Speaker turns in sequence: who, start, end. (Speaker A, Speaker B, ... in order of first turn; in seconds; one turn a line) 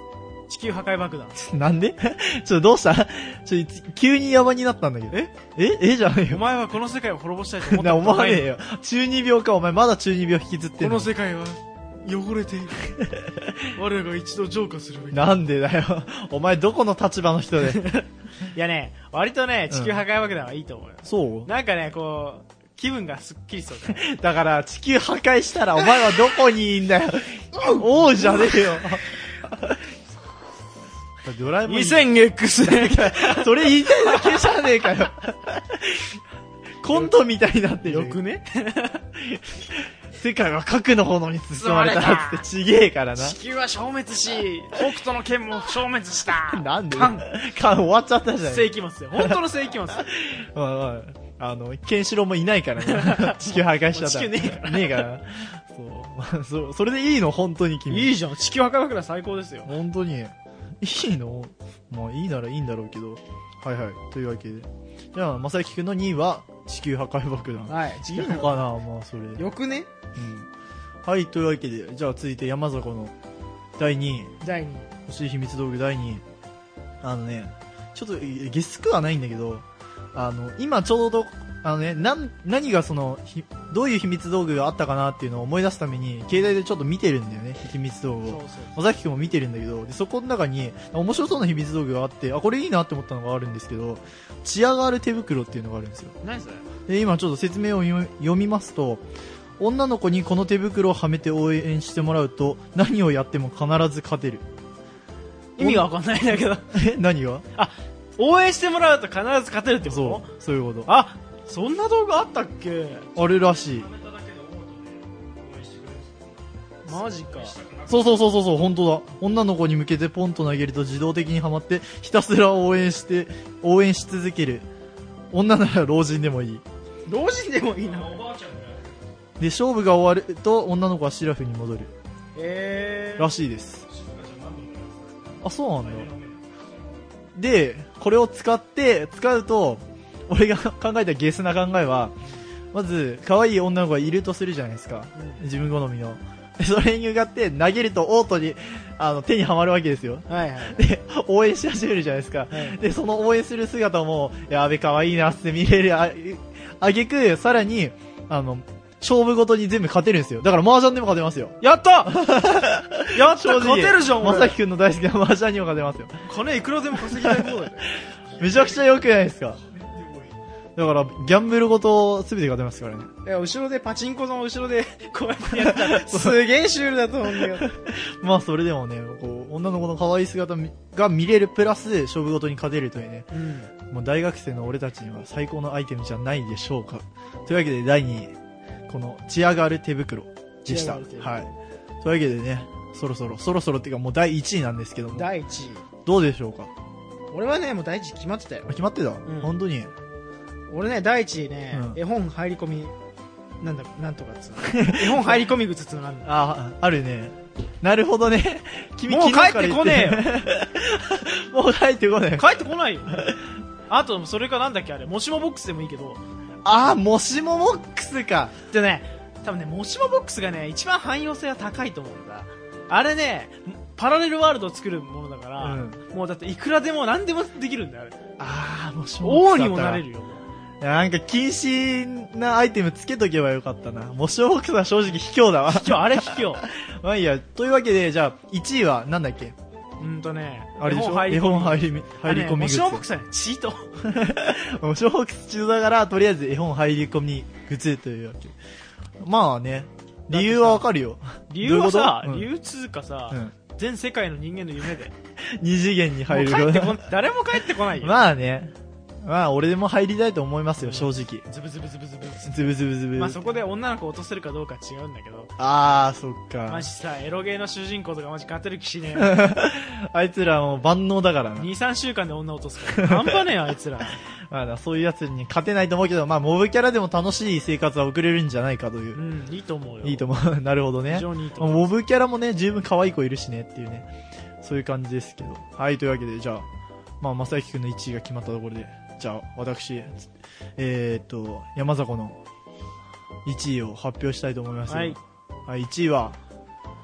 Speaker A: 0.5-1.4
Speaker B: 1.4-6.4
Speaker A: 6.3-8.5
Speaker B: 7.7-11.1
Speaker A: 10.8-15.4
Speaker B: 15.1-17.9
Speaker A: 17.7-24.1
Speaker B: 19.7-20.1
Speaker B: 21.0-21.5
Speaker B: 23.9-29.5
Speaker A: 27.6-28.8
Speaker B: 31.2-36.1
Speaker A: 31.6-34.8
Speaker B: 36.8-38.2
Speaker A: 36.9-37.2
Speaker A: 37.8-39.1
Speaker B: 40.1-43.4
Speaker A: 41.6-42.5
Speaker A: 43.2-47.3
Speaker B: 46.3-49.4
Speaker A: 48.4-50.1
Speaker B: 50.0-58.1
Speaker A: 52.8-55.1
Speaker A: 57.9-59.7
Speaker B: 59.7-69.5
Speaker A: 67.7-68.6
Speaker A: 69.4-69.9
Speaker B: 70.2-70.5
Speaker B: 71.0-73.1
Speaker B: 73.8-74.4
Speaker A: 74.4-74.9
Speaker B: 75.1-76.2
Speaker B: 77.0-96.2
Speaker A: 88.3-88.8
Speaker A: 96.2-96.7
Speaker B: 96.9-99.0
Speaker B: 99.6-104.5
Speaker A: 105.6-106.8
Speaker B: 105.6-105.9
Speaker B: 106.7-107.5
Speaker A: 107.5-110.3
Speaker B: 109.8-110.9
Speaker A: 110.8-113.1
Speaker B: 113.2-113.9
Speaker C: 113.8-118.0
Speaker A: 116.9-117.6
Speaker B: 117.9-124.7
Speaker B: 125.3-126.6
Speaker A: 127.1-128.3
Speaker C: 127.9-129.1
Speaker B: 129.4-131.9
Speaker A: 132.3-133.3
Speaker B: 133.2-133.9
Speaker C: 133.9-136.5
Speaker B: 135.4-136.1
Speaker B: 137.3-142.2
Speaker B: 142.7-166.2
Speaker A: 145.2-145.5
Speaker A: 150.3-150.8
Speaker A: 152.5-152.8
Speaker A: 161.6-162.2
Speaker A: 163.1-164.6
Speaker A: 166.3-168.0
Speaker B: 167.0-167.7
Speaker B: 168.4-169.6
Speaker C: 169.7-170.3
Speaker B: 170.8-173.1
Speaker A: 173.2-177.7
Speaker B: 175.5-176.4
Speaker B: 177.3-183.3
Speaker A: 183.3-183.7
Speaker B: 183.9-188.3
Speaker B: 188.9-195.3
Speaker A: 190.7-191.4
Speaker A: 195.1-195.8
Speaker B: 196.1-196.7
Speaker A: 197.3-199.6
Speaker B: 198.7-199.9
Speaker A: 200.7-202.9
Speaker B: 201.7-202.0
Speaker A: 203.6-206.3
Speaker B: 204.7-205.5
Speaker B: 206.2-212.5
Speaker A: 209.1-210.3
Speaker A: 212.4-216.2
Speaker B: 213.1-213.4
Speaker B: 216.6-218.6
Speaker A: 218.7-228.2
Speaker B: 225.6-226.0
Speaker B: 228.4-230.0
Speaker A: 229.2-230.4
Speaker B: 230.8-239.6
Speaker A: 235.7-236.7
Speaker A: 240.0-244.0
Speaker B: 240.8-243.1
Speaker B: 244.0-248.6
Speaker B: 249.2-252.5
Speaker A: 250.3-250.9
Speaker A: 251.5-255.1
Speaker B: 255.5-257.1
Speaker A: 256.3-258.2
Speaker B: 258.0-261.5
Speaker A: 260.8-265.5
Speaker B: 262.5-263.4
Speaker B: 265.6-266.9
Speaker A: 266.7-269.5
Speaker B: 269.2-271.7
Speaker A: 271.6-274.2
Speaker B: 272.9-273.4
Speaker B: 274.5-279.2
Speaker A: 279.1-280.3
Speaker B: 280.0-284.1
Speaker A: 281.1-281.9
Speaker B: 284.6-286.7
Speaker B: 287.2-292.4
Speaker B: 293.5-296.4
Speaker A: 294.9-295.2